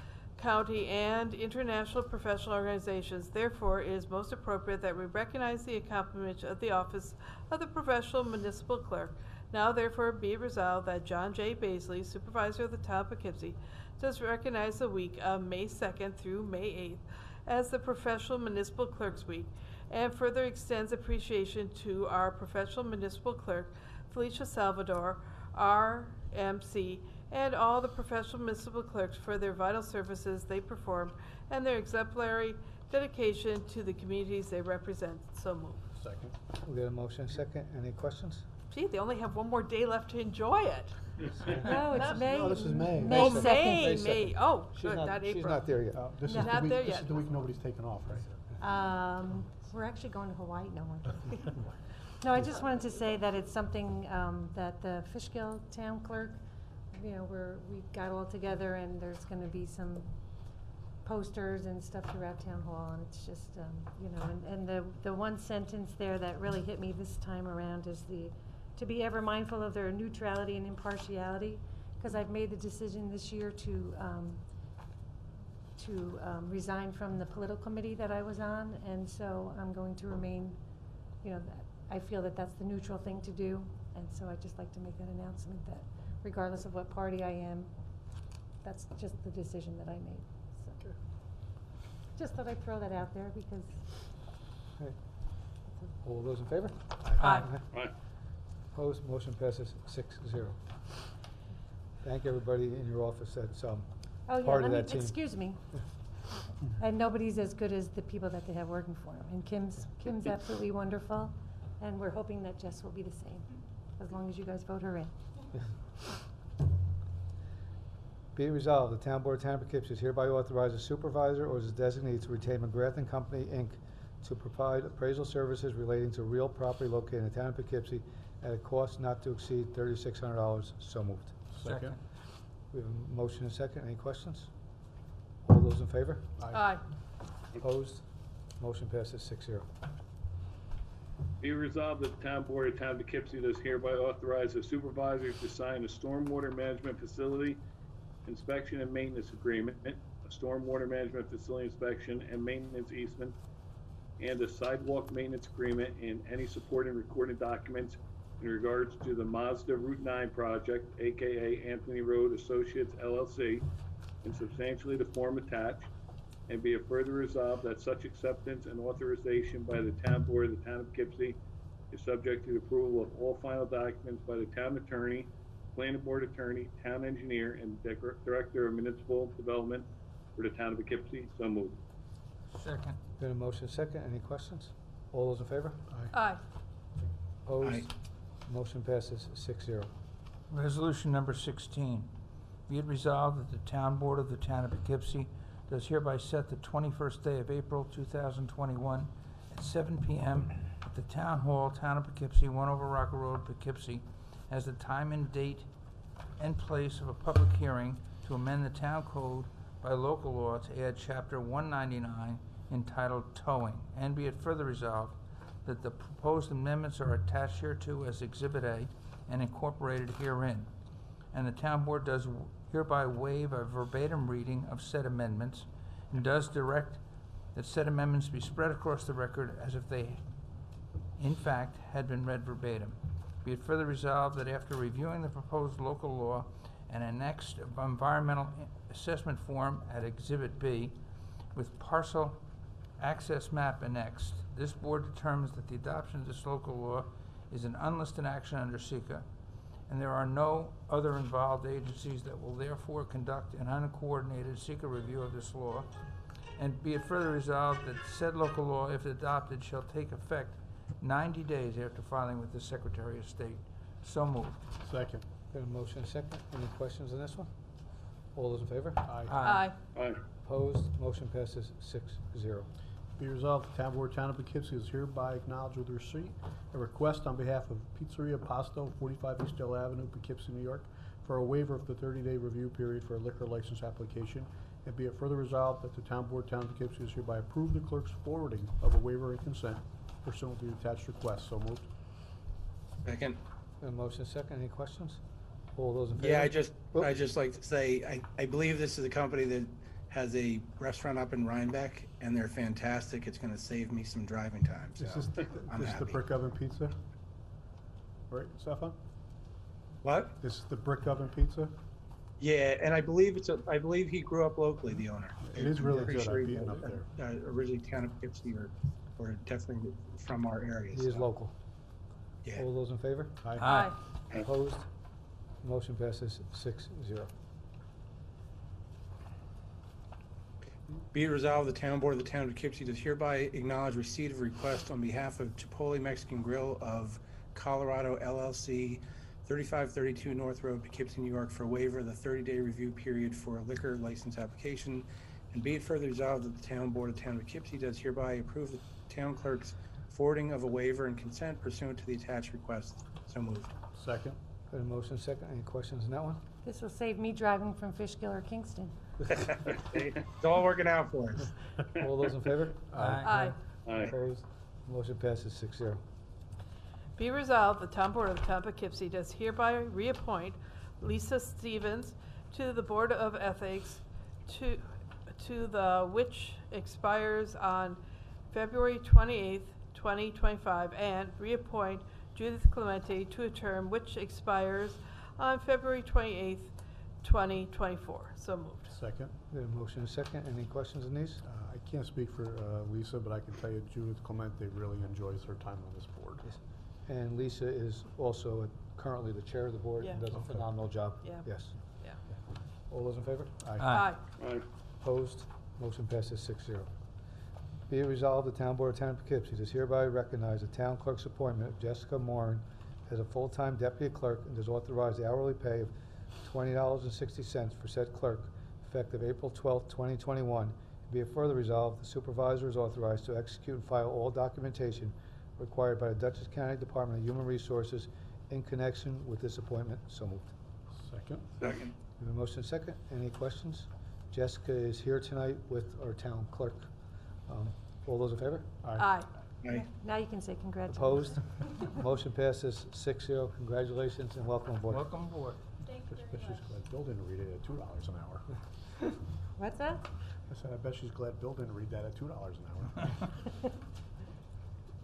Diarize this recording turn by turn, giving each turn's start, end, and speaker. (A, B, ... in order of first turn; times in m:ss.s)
0:00.4-0:35.9 A
0:36.0-0:36.4 B
0:36.6-0:38.4 C
0:38.7-0:41.0 A
0:41.5-0:46.1 C
0:41.6-0:44.1 D
0:41.8-0:47.1 A
0:45.9-0:48.3 B
0:46.2-0:46.9 D
0:48.6-0:51.5 D
0:52.2-0:56.4 D
0:56.9-1:14.4 D
1:15.8-1:20.6 D
1:21.2-1:27.7 D
1:28.6-1:30.7 D
1:32.2-1:34.0 D
1:36.0-1:37.6 C
1:37.2-1:37.5 E
1:38.7-1:40.6 C
1:42.0-1:45.2 C
1:44.3-1:45.8 D
1:46.8-1:55.2 D
1:58.3-2:11.4 C
2:11.5-2:12.0 B
2:11.6-2:11.9 E
2:12.7-2:14.5 C
2:15.4-2:16.3 C
2:16.4-2:16.7 B
2:16.5-2:16.8 A
2:17.6-2:18.0 C
2:18.6-2:19.6 C
2:21.4-2:27.6 F
2:28.2-2:33.3 F
2:34.2-2:43.6 F
2:44.2-2:45.9 F
2:46.5-2:51.4 F
2:51.9-3:01.8 F
3:02.5-3:03.0 E
3:03.2-3:05.8 C
3:06.1-3:06.4 A
3:07.4-3:09.9 C
3:07.6-3:07.9 G
3:10.5-3:12.1 E
3:12.7-3:25.7 E
3:26.4-3:40.7 E
3:41.3-3:47.0 E
3:47.5-3:50.2 E
3:51.2-4:01.0 E
4:01.5-4:02.4 E
4:03.0-4:09.2 E
4:09.9-4:15.9 E
4:16.6-4:24.6 E
4:24.8-4:25.2 B
4:25.5-4:27.5 C
4:28.3-4:29.0 C
4:29.0-4:29.4 B
4:29.3-4:29.7 E
4:29.4-4:29.8 A
4:29.9-4:30.2 F
4:30.4-4:32.7 C
4:33.2-4:51.9 B
4:53.0-4:53.4 G
4:53.8-4:55.2 C
4:55.7-4:57.1 C
4:56.1-5:06.2 G
5:05.0-5:07.0 B
5:08.3-5:09.0 B
5:10.0-5:10.3 G
5:10.4-5:11.7 B
5:12.4-5:21.3 G
5:15.4-5:17.1 B
5:15.9-5:16.1 C
5:20.9-5:21.5 C
5:22.5-5:23.6 C
5:23.6-5:24.0 E
5:23.6-5:24.0 A
5:24.3-5:24.9 C
5:25.6-5:27.3 C
5:31.1-5:53.7 G
5:53.9-5:54.4 B
5:54.7-5:56.4 C
5:56.6-5:59.0 D
5:59.4-6:01.5 G
6:02.0-6:06.0 C
6:02.9-6:03.4 B
6:03.0-6:03.6 E
6:03.2-6:03.6 A
6:03.8-6:04.1 F
6:07.2-6:18.0 A
6:18.5-6:29.0 A
6:28.9-6:29.3 B
6:29.5-6:31.4 C
6:31.4-6:36.4 B
6:36.4-6:41.8 C
6:40.0-6:40.2 A
6:40.3-6:40.7 B
6:41.2-6:42.2 A
6:42.9-6:43.6 C
6:43.6-6:43.9 B
6:43.8-6:44.2 E
6:43.9-6:44.2 A
6:44.4-6:44.6 F
6:45.0-6:46.9 C
6:47.9-6:55.9 C
6:56.4-7:10.5 C
7:10.9-7:11.5 B
7:11.6-7:11.9 G
7:12.2-7:16.9 C
7:17.5-7:18.7 C
7:18.8-7:19.2 B
7:19.0-7:19.3 A
7:19.7-7:21.6 D
7:20.9-7:25.0 C
7:24.9-7:25.6 E
7:25.8-7:28.4 B
7:29.6-7:30.1 D
7:30.5-7:33.4 B